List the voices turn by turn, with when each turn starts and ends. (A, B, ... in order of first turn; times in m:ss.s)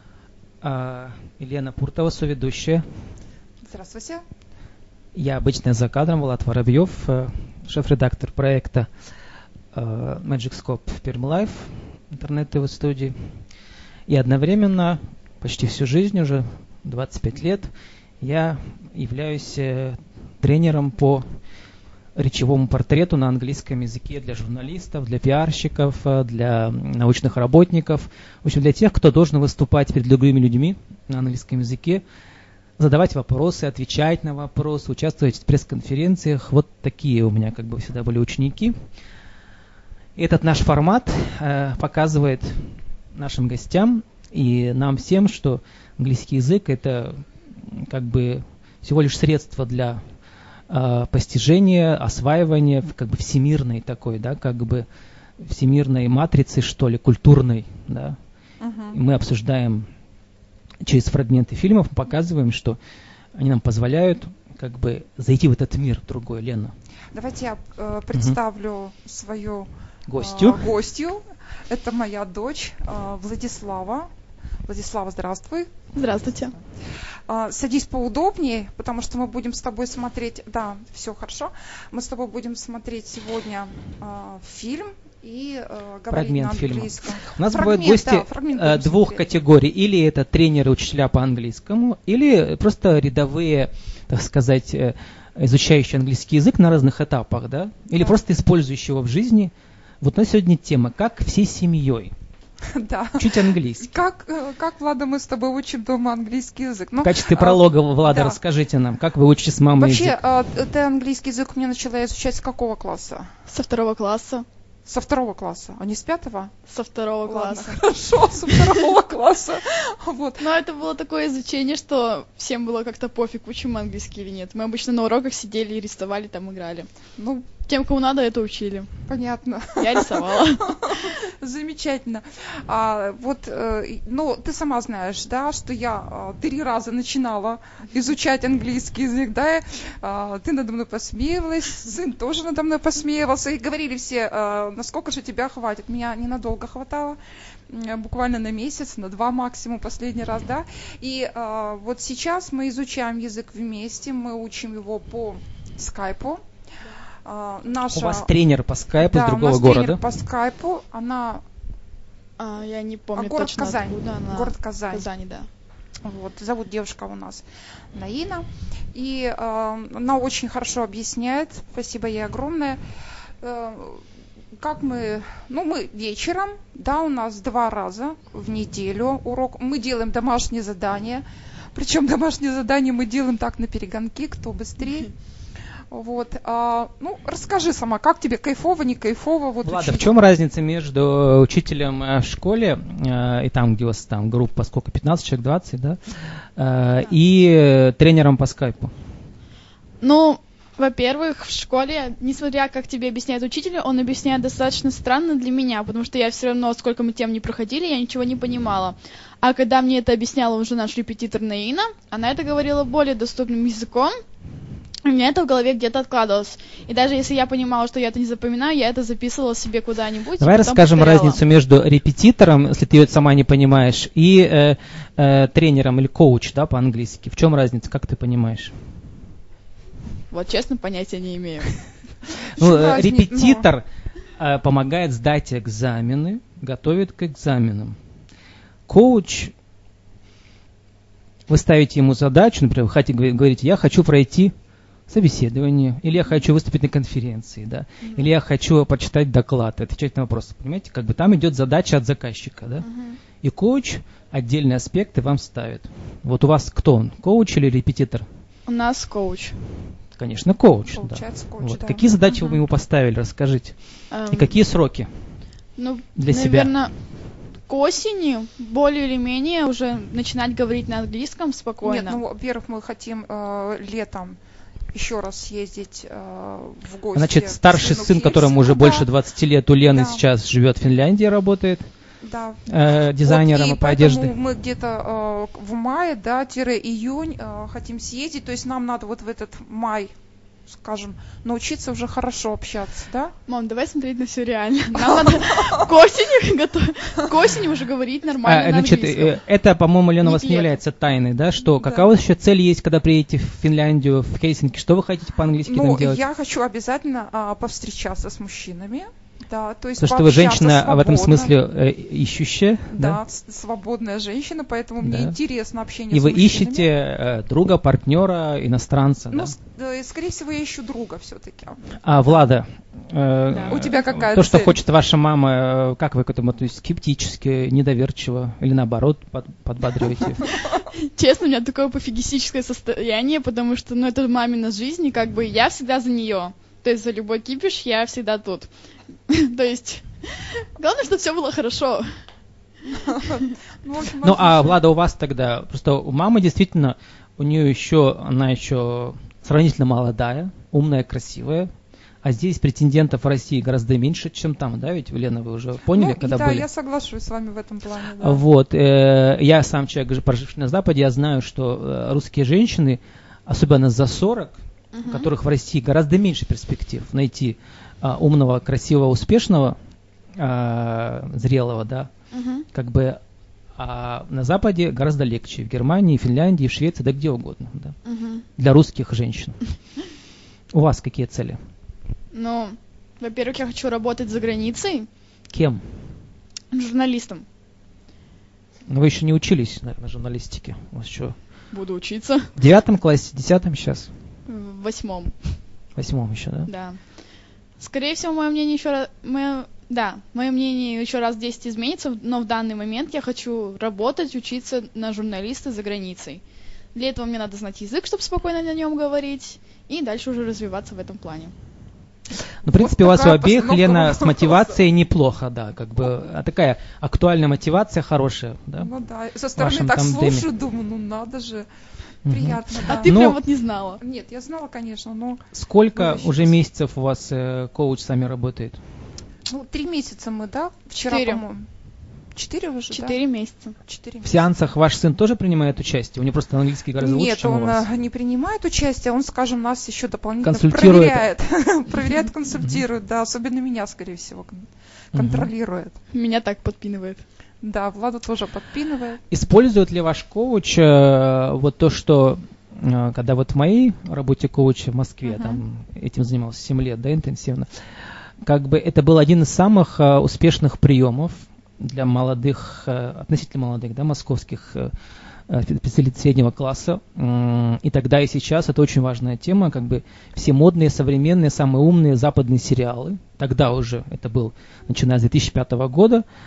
0:00.6-0:02.8 A
0:03.6-0:04.2 B
0:05.1-0:08.9 A
0:09.7-0:13.1 A
0:14.1-0:21.3 A
0:22.1-0:32.0 A
0:32.8-0:38.7 A
0:40.2-0:50.0 A
0:50.7-0:54.8 A
0:55.4-0:58.2 A
0:58.6-0:59.0 B
0:58.9-0:59.9 A
1:00.8-1:02.8 A
1:03.3-1:06.7 A
1:07.1-1:14.1 B
1:10.1-1:10.6 A
1:14.6-1:15.7 B
1:15.9-1:16.5 C
1:17.3-1:29.3 B
1:26.1-1:42.1 A
1:42.7-1:48.4 B
1:43.2-1:43.9 A
1:47.0-1:50.2 A
1:49.8-1:53.3 B
1:53.5-1:54.4 C
1:54.8-1:56.5 B
1:56.7-1:57.8 C
1:57.2-2:00.5 B
1:58.5-1:58.8 C
2:00.4-2:06.9 C
2:07.2-2:07.5 B
2:07.7-2:08.9 C
2:09.1-2:36.4 B
2:09.8-2:11.1 C
2:37.2-2:38.3 B
2:37.9-2:40.0 A
2:39.0-2:41.4 B
2:42.4-2:45.5 C
2:43.1-2:45.1 B
2:46.0-2:52.8 B
2:53.4-2:54.0 B
2:54.6-3:05.1 B
3:05.9-3:10.1 B
3:09.6-3:16.0 A
3:16.6-3:18.9 A
3:20.0-3:34.2 C
3:35.0-3:41.4 C
3:40.4-3:48.7 A
3:50.3-3:51.8 C
3:52.5-3:53.6 B
3:52.6-3:53.8 A
3:54.4-3:58.0 A
3:58.9-3:59.5 A
4:01.5-4:04.5 A
4:05.1-4:12.8 A
4:12.8-4:13.2 C
4:13.4-4:18.2 A
4:18.7-4:19.6 C
4:20.2-4:23.7 A
4:20.9-4:22.6 B
4:24.1-4:24.5 C
4:24.3-4:25.1 A
4:25.8-4:26.9 C
4:26.2-4:26.7 A
4:27.7-4:32.2 C
4:31.8-4:34.4 B
4:34.9-4:39.1 B
4:37.1-4:41.9 A
4:39.9-4:40.2 B
4:42.2-4:42.7 B
4:42.7-4:44.3 A
4:43.2-4:50.1 B
4:50.7-4:53.3 B
4:53.5-4:59.4 C
4:54.9-4:55.9 B
4:58.4-5:06.2 A
5:00.2-5:00.7 C
5:01.7-5:02.0 B
5:05.6-5:11.5 B
5:10.0-5:13.2 A
5:12.9-5:16.9 B
5:15.0-5:15.4 A
5:16.1-5:19.5 A
5:19.3-5:21.9 B
5:22.0-5:30.5 A
5:23.6-5:24.8 B
5:30.9-5:38.7 C
5:39.3-5:42.1 C
5:42.9-5:44.8 B
5:44.2-5:51.7 A
5:52.2-5:56.6 A
5:55.9-5:58.4 B
5:58.2-6:09.8 A
6:04.9-6:05.3 C
6:10.4-6:12.1 A
6:12.3-6:12.6 C
6:12.7-6:13.2 A
6:13.8-6:18.0 A
6:18.0-6:18.4 C
6:18.6-6:19.6 A
6:20.7-6:21.6 A
6:22.3-6:25.1 C
6:25.5-6:25.8 A
6:26.7-6:27.4 C
6:28.9-6:31.4 A
6:31.7-6:32.5 C
6:32.6-6:34.1 A
6:34.5-6:35.4 C
6:36.0-6:36.7 A
6:36.7-6:37.0 C
6:37.8-6:46.4 C
6:46.9-6:51.5 C
6:52.6-6:58.9 A
6:52.6-6:54.8 B
6:58.8-7:01.7 B
6:59.6-7:00.5 A
7:02.2-7:03.3 B
7:02.2-7:03.4 A
7:02.8-7:04.0 C
7:04.0-7:06.6 B
7:05.5-7:08.8 A
7:09.5-7:11.6 B
7:11.0-7:11.4 C
7:12.3-7:13.2 B
7:12.9-7:13.7 C
7:13.8-7:14.4 B
7:14.2-7:17.8 A
7:17.0-7:26.0 B
7:20.4-7:21.3 A
7:25.1-7:25.5 A
7:26.1-7:27.2 C
7:27.6-7:29.2 B
7:29.3-7:37.7 A
7:35.2-7:35.6 B
7:38.4-7:44.9 A
7:45.5-7:56.2 A